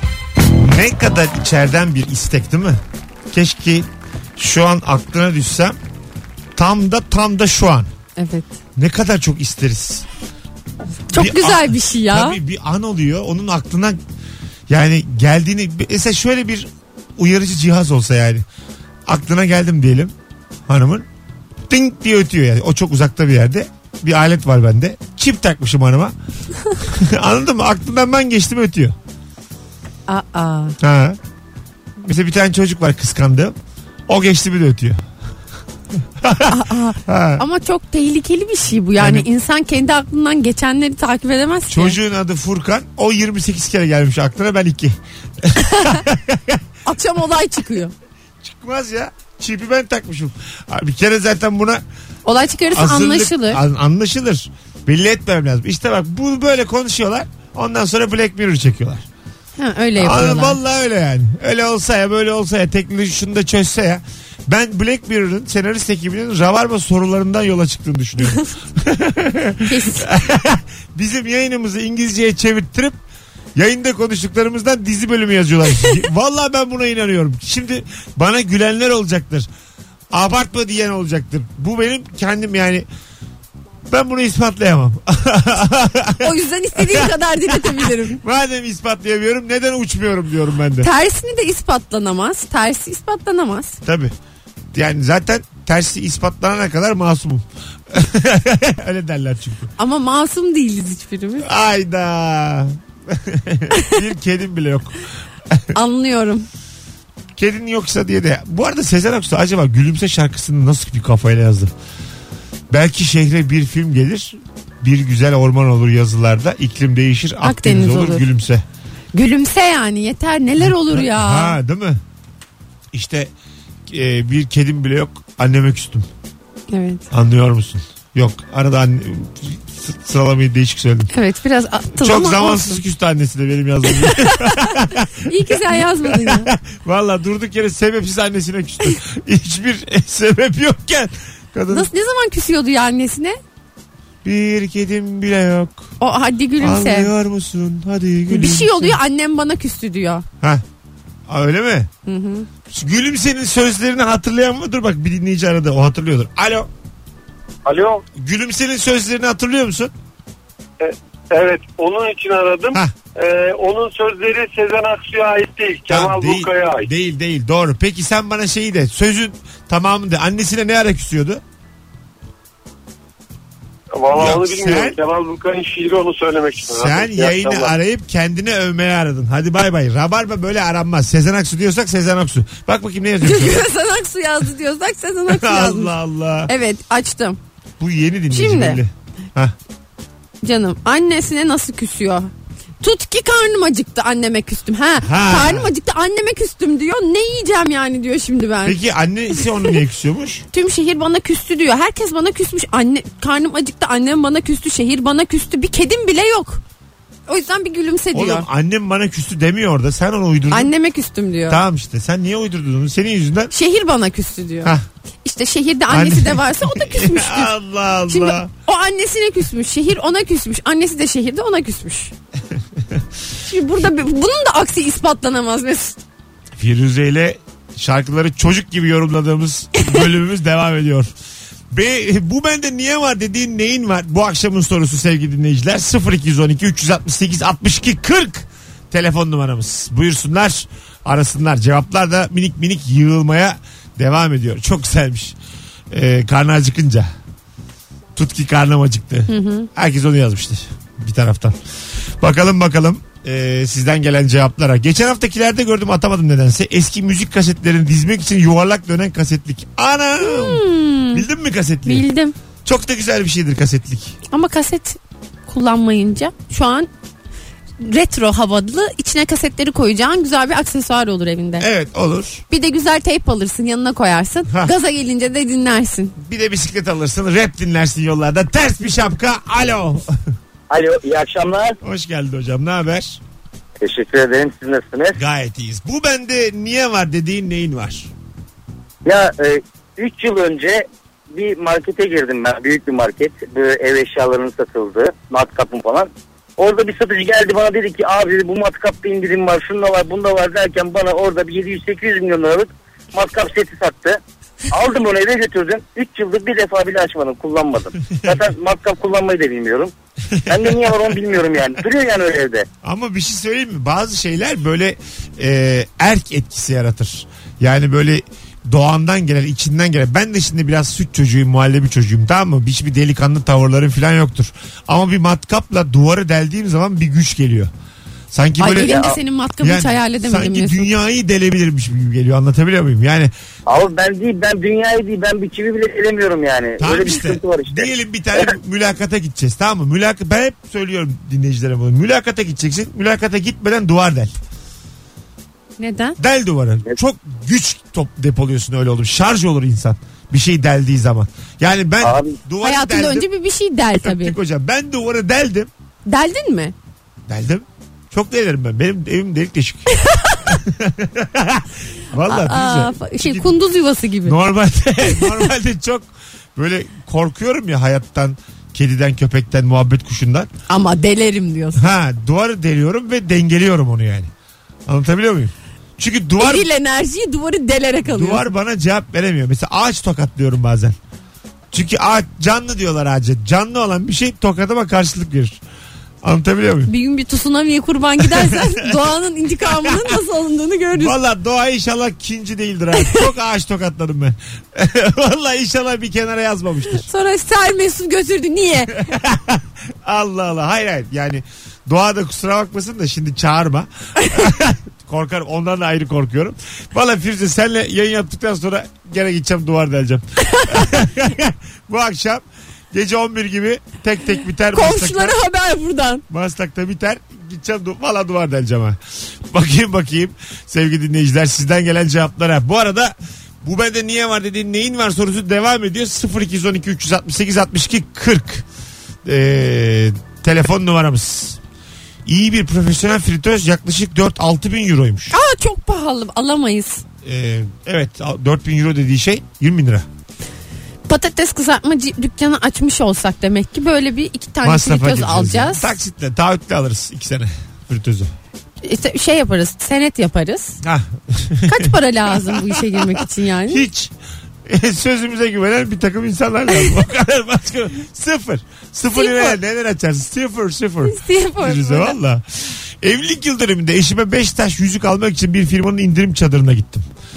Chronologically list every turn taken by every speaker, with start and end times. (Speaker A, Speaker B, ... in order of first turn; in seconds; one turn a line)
Speaker A: 0.5-2.8
Speaker A: 3.3-5.8
Speaker A: 6.5-7.9
Speaker B: 8.2-8.5
Speaker A: 8.8-10.1
Speaker B: 11.1-12.4
Speaker A: 11.1-14.0
Speaker A: 14.7-18.4
Speaker A: 19.1-20.1
Speaker A: 20.7-21.1
Speaker A: 21.7-26.1
Speaker A: 26.8-28.9
Speaker B: 30.1-30.8
Speaker A: 30.8-31.2
Speaker A: 32.0-33.5
Speaker A: 34.1-35.0
Speaker A: 36.2-37.4
Speaker B: 36.5-42.0
Speaker A: 39.0-39.3
Speaker A: 41.7-46.6
Speaker B: 45.6-46.0
Speaker B: 46.8-47.9
Speaker A: 48.4-51.8
Speaker B: 52.2-53.6
Speaker A: 52.7-59.1
Speaker B: 59.6-60.6
Speaker A: 60.0-73.0
Speaker B: 69.7-70.1
Speaker A: 73.5-79.5
Speaker A: 80.1-82.8
Speaker A: 83.9-90.9
Speaker B: 86.2-88.2
Speaker B: 90.8-93.8
Speaker A: 93.8-94.1
Speaker A: 94.7-99.7
Speaker B: 99.8-101.5
Speaker A: 101.4-105.0
Speaker B: 105.7-106.5
Speaker A: 107.3-111.7
Speaker A: 112.7-118.6
Speaker B: 117.4-118.2
Speaker B: 119.1-121.6
Speaker A: 120.6-122.0
Speaker A: 122.9-123.3
Speaker A: 123.9-126.1
Speaker B: 126.7-127.0
Speaker A: 127.1-131.1
Speaker B: 131.1-132.8
Speaker A: 131.9-141.9
Speaker B: 133.9-136.5
Speaker B: 141.7-143.4
Speaker A: 144.2-145.9
Speaker B: 146.0-147.1
Speaker A: 146.6-149.0
Speaker B: 148.3-150.2
Speaker A: 151.3-151.9
Speaker B: 152.1-152.5
Speaker A: 152.7-156.7
Speaker C: 157.6-158.0
Speaker A: 158.1-159.9
Speaker C: 160.8-166.9
Speaker A: 165.9-171.4
Speaker C: 173.9-177.7
Speaker A: 174.1-175.0
Speaker A: 176.7-183.6
Speaker B: 183.2-185.9
Speaker A: 185.3-186.5
Speaker B: 186.5-187.4
Speaker A: 187.8-189.5
Speaker B: 188.3-188.8
Speaker B: 190.4-198.8
Speaker A: 195.0-195.7
Speaker A: 198.6-200.4
Speaker B: 199.4-199.8
Speaker B: 200.5-206.6
Speaker B: 207.3-208.5
Speaker A: 208.1-210.7
Speaker B: 210.5-211.6
Speaker A: 211.5-213.5
Speaker B: 213.5-214.7
Speaker B: 215.2-217.5
Speaker A: 215.9-218.5
Speaker B: 218.1-222.1
Speaker B: 223.4-226.0
Speaker A: 226.6-231.1
Speaker A: 231.7-245.3
Speaker A: 245.9-247.1
Speaker A: 248.1-251.6
Speaker B: 249.3-249.7
Speaker A: 252.2-262.1
Speaker B: 260.2-261.2
Speaker B: 261.9-262.3
Speaker A: 262.6-264.2
Speaker B: 264.3-266.9
Speaker B: 267.8-271.7
Speaker A: 271.6-272.4
Speaker B: 272.5-276.1
Speaker A: 276.2-280.2
Speaker D: 280.7-281.8
Speaker A: 281.8-283.2
Speaker D: 283.8-285.2
Speaker A: 285.1-288.1
Speaker D: 289.0-304.2
Speaker D: 304.7-309.9
Speaker A: 310.3-311.0
Speaker D: 310.5-312.6
Speaker A: 312.8-327.7
Speaker A: 328.3-333.3
Speaker B: 328.6-330.9
Speaker D: 328.9-329.1
Speaker D: 333.7-338.5
Speaker A: 336.8-344.3
Speaker B: 345.8-346.2
Speaker A: 346.2-353.3
Speaker D: 352.0-352.4
Speaker B: 352.6-354.4
Speaker A: 354.0-355.7
Speaker B: 356.1-356.7
Speaker A: 357.3-359.9
Speaker B: 360.0-360.4
Speaker A: 360.5-363.5
Speaker B: 362.3-364.4
Speaker A: 364.2-370.5
Speaker B: 365.0-365.5
Speaker B: 370.7-371.9
Speaker A: 371.8-374.3
Speaker A: 374.9-376.7
Speaker B: 376.4-378.5
Speaker A: 378.1-380.9
Speaker A: 381.7-385.6
Speaker A: 386.2-386.9
Speaker B: 386.9-391.2
Speaker A: 388.2-390.2
Speaker A: 390.9-397.1
Speaker B: 393.0-393.2
Speaker B: 396.9-399.1
Speaker A: 399.0-415.4
Speaker B: 410.4-410.9
Speaker B: 414.7-416.2
Speaker A: 416.3-428.6
Speaker A: 429.2-431.6
Speaker A: 432.2-435.4
Speaker B: 435.3-437.0
Speaker A: 437.2-440.1
Speaker B: 441.1-445.9
Speaker A: 444.6-448.3
Speaker B: 448.8-450.8
Speaker A: 450.8-454.1
Speaker B: 451.7-453.8
Speaker A: 454.6-467.1
Speaker B: 459.1-459.6
Speaker B: 461.0-462.2